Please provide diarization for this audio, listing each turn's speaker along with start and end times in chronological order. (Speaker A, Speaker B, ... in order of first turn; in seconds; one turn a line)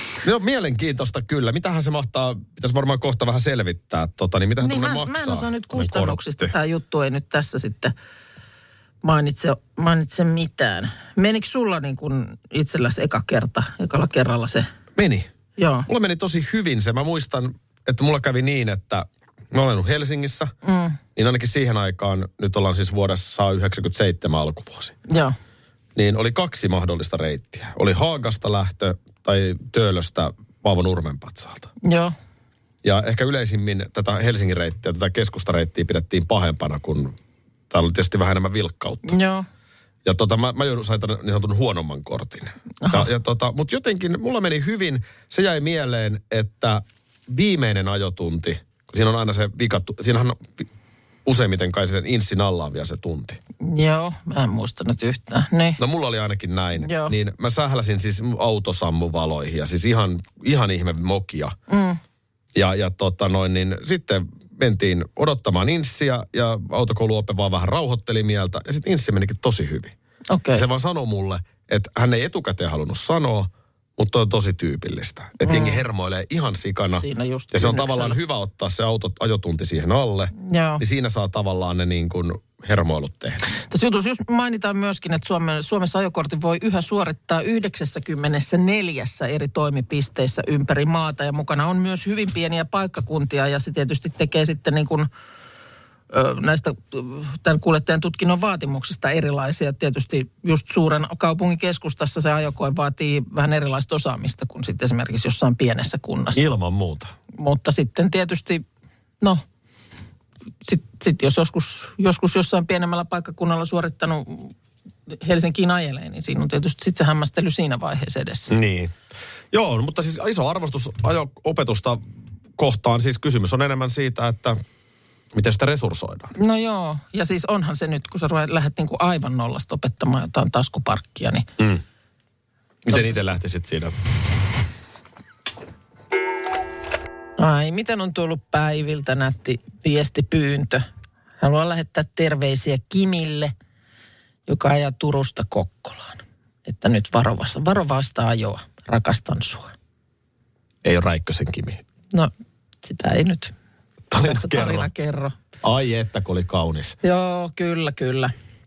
Speaker A: 0.2-6.5
Speaker B: 4.6-7.9
Speaker B: 9.0-14.7
Speaker A: 15.0-15.3
Speaker B: 15.6-15.9
Speaker A: 15.9-20.5
Speaker B: 20.6-21.0
Speaker A: 21.1-25.0
Speaker B: 25.1-25.4
Speaker A: 25.9-31.7
Speaker B: 31.8-32.1
Speaker A: 32.8-37.2
Speaker A: 37.7-39.2
Speaker B: 39.0-39.5
Speaker A: 40.0-50.7
Speaker B: 42.8-43.1
Speaker A: 51.2-53.4
Speaker B: 53.6-55.8
Speaker A: 55.8-61.5
Speaker B: 56.8-57.1
Speaker B: 61.7-62.0
Speaker A: 62.5-69.9
Speaker B: 70.3-70.7
Speaker A: 70.5-83.4
Speaker B: 75.4-75.8
Speaker B: 76.9-78.2
Speaker B: 80.4-80.8
Speaker B: 83.5-95.1
Speaker B: 96.1-106.4
Speaker A: 106.3-107.1
Speaker B: 107.3-108.6
Speaker B: 110.6-114.5
Speaker B: 115.1-118.5
Speaker A: 118.5-118.9
Speaker A: 119.5-122.0
Speaker A: 122.6-124.6
Speaker A: 125.3-126.3
Speaker B: 126.4-131.5
Speaker A: 132.8-133.9
Speaker B: 137.4-140.8
Speaker B: 141.4-143.5
Speaker B: 144.5-149.7
Speaker A: 150.8-151.8
Speaker B: 152.8-153.5
Speaker A: 154.1-154.9
Speaker B: 154.2-155.4
Speaker A: 155.6-157.0
Speaker B: 157.0-158.3